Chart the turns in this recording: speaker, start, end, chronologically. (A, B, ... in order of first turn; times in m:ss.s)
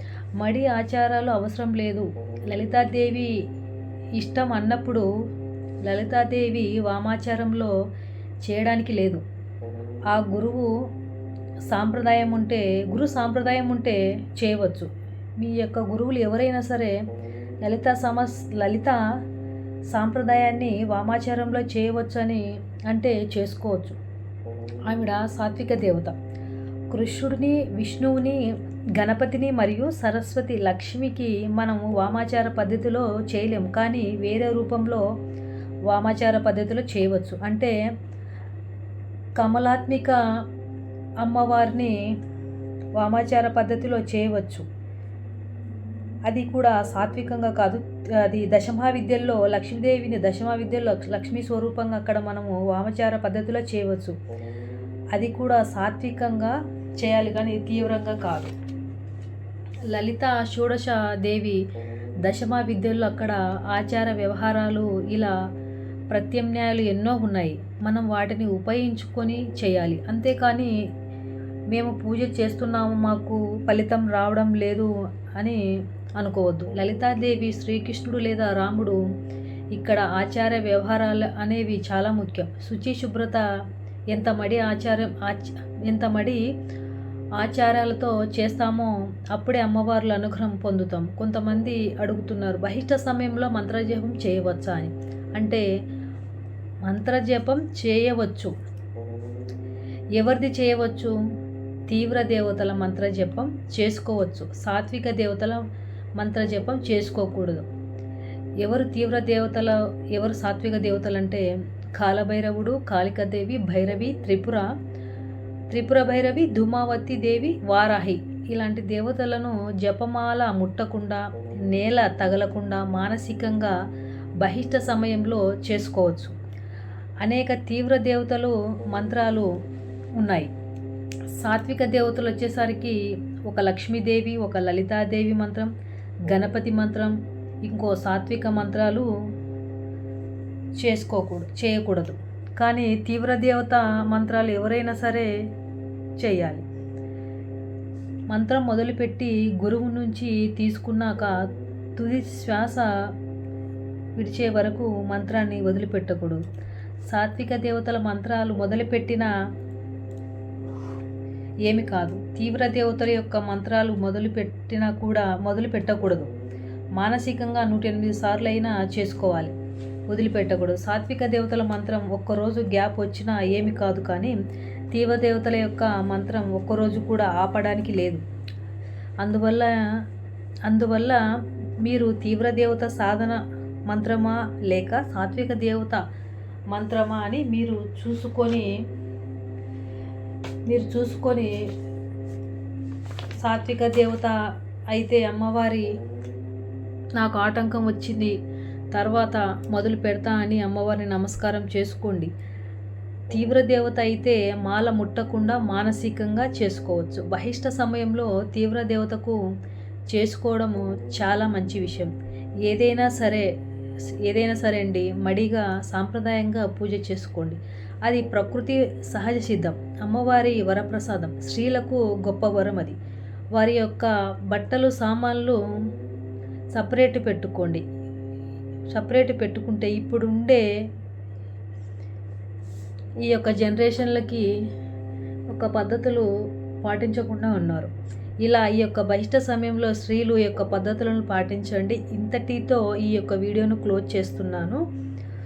0:00.4-0:03.3 A
0:04.2-0:05.1 A
0:05.8-0:07.7 A
0:08.4-0:09.2 A
0:10.1-0:10.7 A
0:11.7-0:14.9 A
0:15.4-0:17.0 A
0:17.6-0:19.0 A
0:19.9-0:24.0 A
0:24.9-0:26.1 A
0:26.9-0:28.4 A
0:29.0-0:35.0 A
0:35.9-0:37.7 A
0:39.4-0:40.2 A
0:41.2-0:41.9 A
0:43.0-0:44.6 A
0:46.3-0:54.2 A
0:55.1-0:58.5 A
0:59.9-1:01.6 A
1:02.2-1:05.3 A
1:06.1-1:10.7 A
1:11.7-1:15.6 A
1:16.2-1:19.0 A
1:19.7-1:23.4 A
1:24.1-1:26.4 A
1:27.4-1:35.6 A
1:36.8-1:38.5 A
1:40.2-1:41.1 A
1:41.9-1:45.6 A
1:46.2-1:47.7 A
1:48.6-1:54.7 A
1:55.7-2:03.7 A
2:04.4-2:06.3 A
2:07.2-2:09.5 A
2:10.2-2:10.5 A
2:11.3-2:15.7 A
2:16.2-2:19.1 A
2:20.8-2:25.3 A
2:26.2-2:26.6 A
2:28.3-2:33.1 A
2:34.2-2:36.4 A
2:37.1-2:39.3 A
2:41.7-2:46.3 A
2:47.0-2:49.5 A
2:50.1-2:54.4 A
2:54.9-2:58.2 A
2:59.2-2:59.8 A
3:00.6-3:01.2 A
3:01.8-3:06.0 A
3:06.7-3:08.7 A
3:10.7-3:11.5 A
3:13.4-3:14.4 A
3:14.9-3:16.0 A
3:17.2-3:18.3 A
3:18.9-3:22.3 A
3:23.3-3:29.4 A
3:30.1-3:32.1 A
3:32.6-3:33.5 A
3:34.2-3:43.0 A
3:43.5-3:45.9 A
3:46.7-3:47.8 A
3:48.9-3:50.6 A
3:53.2-3:54.4 A
3:55.5-3:56.3 A
3:56.8-3:57.9 A
3:58.4-4:04.8 A